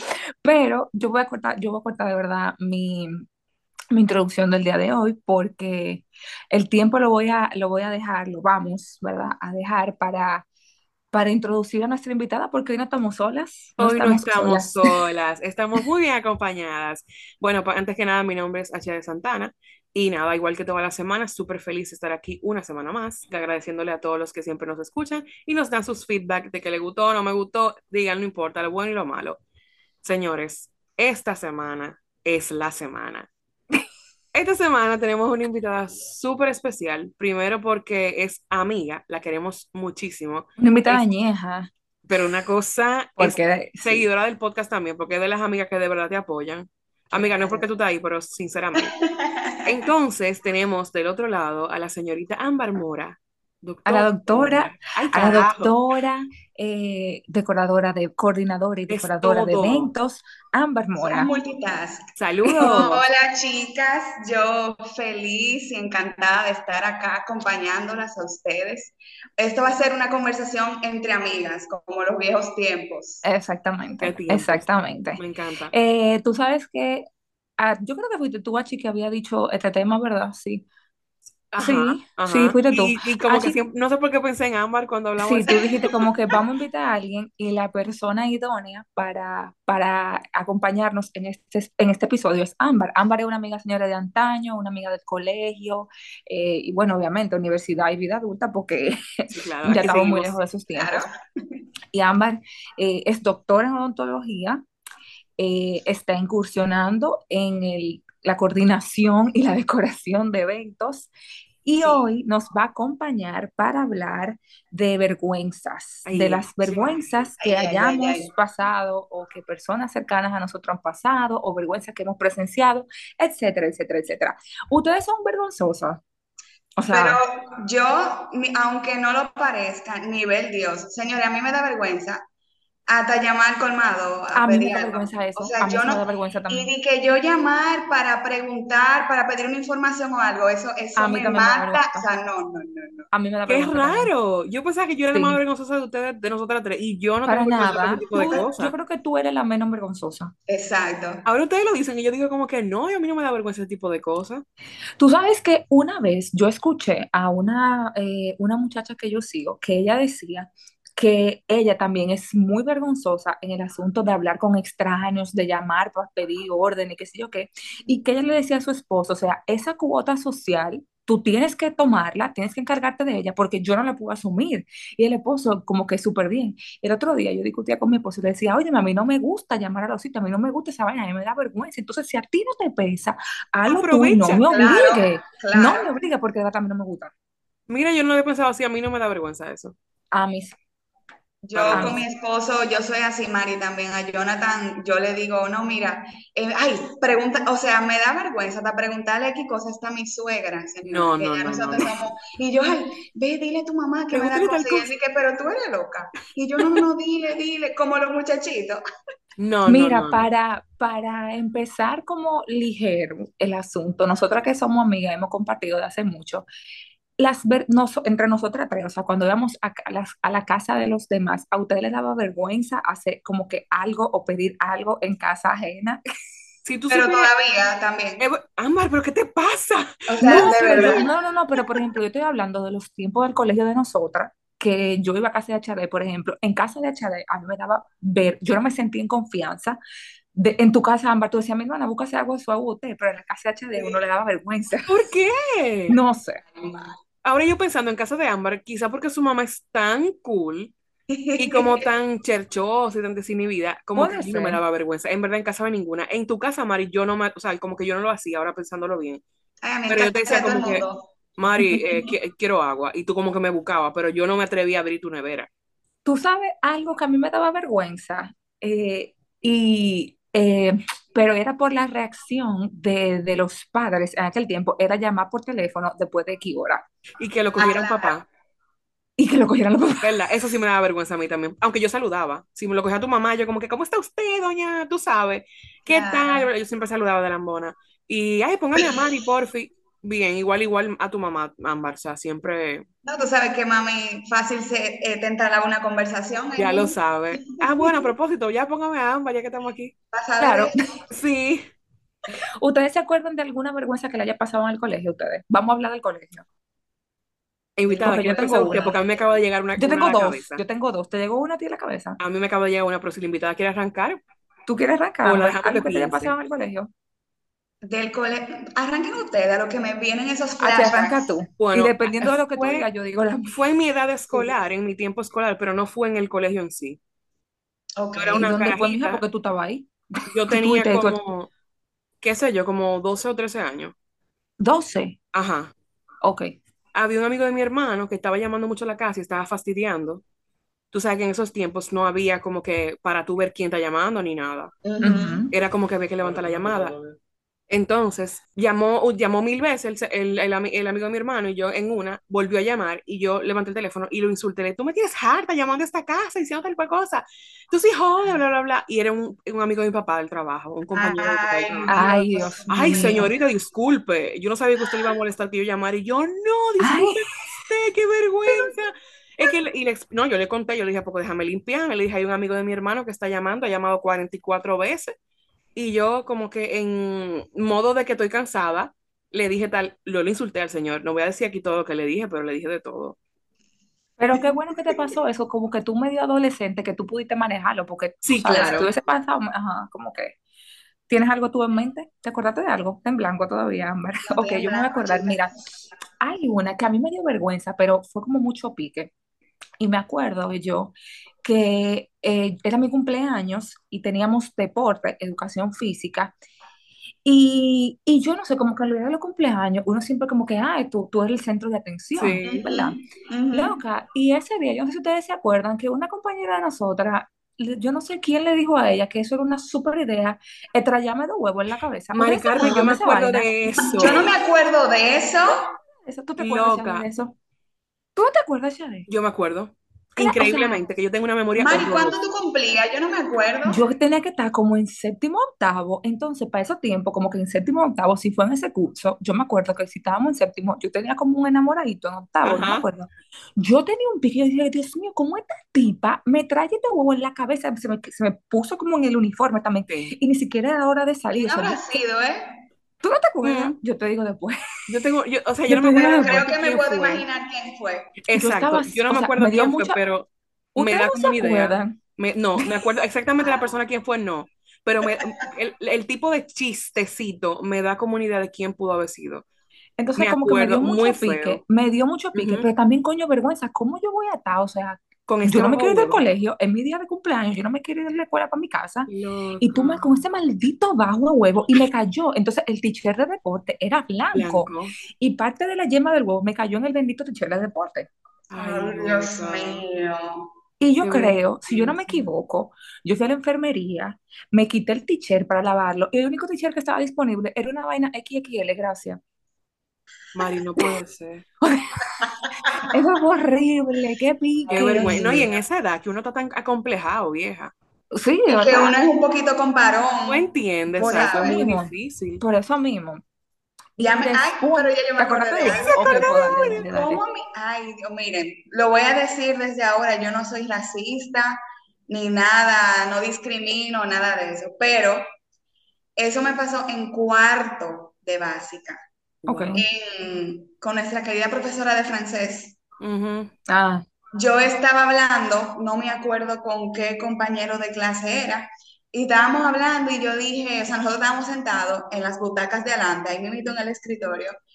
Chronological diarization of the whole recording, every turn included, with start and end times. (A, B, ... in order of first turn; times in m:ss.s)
0:00.4-0:03.3 A
0:03.9-0:10.5 A
0:11.1-0:15.0 A
0:13.8-0:29.4 B
0:30.0-0:33.3 B
0:34.3-0:41.0 B
0:40.6-0:41.7 A
0:42.1-0:49.0 B
0:43.2-0:44.1 A
0:47.1-0:47.7 A
0:48.8-0:49.6 C
0:49.6-0:55.8 B
0:53.9-1:01.3 A
0:58.9-0:59.9 B
1:01.0-1:02.1 C
1:02.2-1:03.0 B
1:02.4-1:02.9 A
1:02.6-1:13.2 C
1:13.2-1:17.0 A
1:14.0-1:15.7 B
1:17.6-1:20.7 A
1:21.5-1:25.9 B
1:21.6-1:23.6 A
1:25.2-1:41.1 A
1:25.5-1:25.9 C
1:39.3-1:40.4 B
1:40.8-1:41.1 C
1:41.9-1:44.6 A
1:45.4-1:51.1 A
1:51.6-2:06.0 A
1:51.8-1:52.0 C
1:56.0-1:57.3 B
1:57.4-1:58.3 C
2:06.8-2:07.2 A
2:06.9-2:12.2 C
2:12.9-2:23.1 C
2:14.4-2:16.7 A
2:21.0-2:22.1 A
2:23.1-2:24.1 A
2:23.5-2:28.7 B
2:25.1-2:25.4 A
2:27.3-2:30.3 A
2:27.6-2:28.5 C
2:30.5-2:31.2 C
2:31.2-2:34.4 B
2:35.0-3:07.1 A
3:03.7-3:04.4 B
3:04.5-3:05.9 C
3:07.7-3:09.8 B
3:10.1-3:10.6 A
3:11.4-3:28.8 C
3:11.5-3:12.0 B
3:11.7-3:12.0 A
3:20.9-3:22.0 B
3:24.1-3:24.9 B
3:29.4-3:30.3 B
3:29.7-3:36.5 A
3:37.2-3:46.0 A
3:46.6-3:47.3 B
3:46.9-3:48.2 C
3:48.2-3:51.1 B
3:50.1-3:51.1 C
3:50.2-3:59.8 A
4:00.4-4:05.1 A
4:04.9-4:06.0 B
4:05.9-4:06.5 A
4:06.6-4:06.9 C
4:07.2-4:10.7 B
4:11.1-4:11.9 C
4:11.4-4:19.2 B
4:14.0-4:14.6 A
4:19.6-4:21.1 C
4:19.9-4:20.8 B
4:21.4-4:25.5 B
4:26.0-4:36.8 A
4:37.2-4:38.3 B
4:37.6-4:38.2 C
4:39.2-4:40.2 A
4:40.0-4:52.9 B
4:45.9-4:46.5 C
4:48.8-4:49.1 C
4:53.0-4:58.1 C
4:56.6-4:59.9 B
5:00.1-5:00.8 C
5:00.4-5:00.8 A
5:01.1-5:01.6 B
5:02.6-5:06.4 A
5:07.8-5:10.6 B
5:07.9-5:09.2 C
5:08.0-5:08.9 A
5:09.8-5:12.2 A
5:12.2-5:14.2 B
5:14.7-5:16.9 A
5:15.2-5:16.3 B
5:17.8-5:21.2 C
5:20.6-5:23.6 A
5:21.6-5:22.9 B
5:23.5-5:27.0 B
5:28.0-5:28.5 C
5:28.2-5:29.2 B
5:28.3-5:29.9 A
5:30.3-5:31.5 B
5:30.5-5:31.2 A
5:32.2-5:34.0 B
5:34.6-5:35.2 A
5:35.3-5:35.7 B
5:36.2-5:36.6 A
5:36.9-5:40.2 B
5:40.9-5:44.7 B
5:44.8-5:45.5 C
5:45.0-5:45.5 A
5:45.5-5:47.0 B
5:47.7-6:02.0 B
6:00.9-6:03.3 C
6:01.9-6:03.3 A
6:02.7-6:15.1 B
6:06.8-6:07.5 A
6:08.5-6:08.7 C
6:15.8-6:23.2 B
6:24.2-6:30.4 A
6:28.2-6:28.9 B
6:28.5-6:28.9 C
6:31.1-6:35.6 A
6:34.3-6:35.5 C
6:36.2-6:39.1 A
6:39.8-6:46.3 A
6:47.2-6:53.0 A
6:52.2-6:52.6 B
6:52.4-6:53.8 C
6:53.5-7:04.3 A
7:02.1-7:04.3 B
7:03.8-7:05.7 C
7:06.0-7:07.4 A
7:06.4-7:07.1 B
7:08.2-7:09.1 A
7:09.1-7:12.2 B
7:10.2-7:10.8 A
7:11.6-7:13.8 C
7:13.7-7:32.0 A
7:22.4-7:22.9 B
7:31.3-7:32.5 C
7:33.0-7:34.9 A
7:33.4-7:33.8 B
7:34.9-7:37.2 B
7:35.7-7:36.6 A
7:36.0-7:38.2 C
7:38.2-7:49.4 B
7:38.3-7:40.0 A
7:40.8-7:42.0 A
7:43.4-7:43.8 C
7:50.0-8:08.1 A
7:50.2-7:51.6 B
7:52.4-7:52.7 B
7:55.3-7:56.3 B
7:59.1-8:00.2 B
8:04.3-8:04.9 B
8:08.5-8:09.8 B
8:08.5-8:10.5 C
8:10.8-8:19.2 A
8:11.0-8:12.3 B
8:20.4-8:21.5 B
8:21.6-8:22.2 A
8:22.2-8:22.8 C
8:22.9-8:25.5 A
8:24.7-8:25.5 C
8:24.7-8:27.7 B
8:28.1-8:29.0 A
8:28.5-8:31.7 C
8:30.3-8:32.4 B
8:31.0-8:33.2 A
8:34.0-8:37.2 A
8:34.0-8:45.2 C
8:35.6-8:36.9 B
8:46.2-8:49.0 C
8:49.4-8:49.8 B
8:49.4-8:49.8 A
8:49.7-8:52.8 C
8:53.0-8:53.5 B
8:53.7-8:54.0 A
8:54.3-9:04.5 C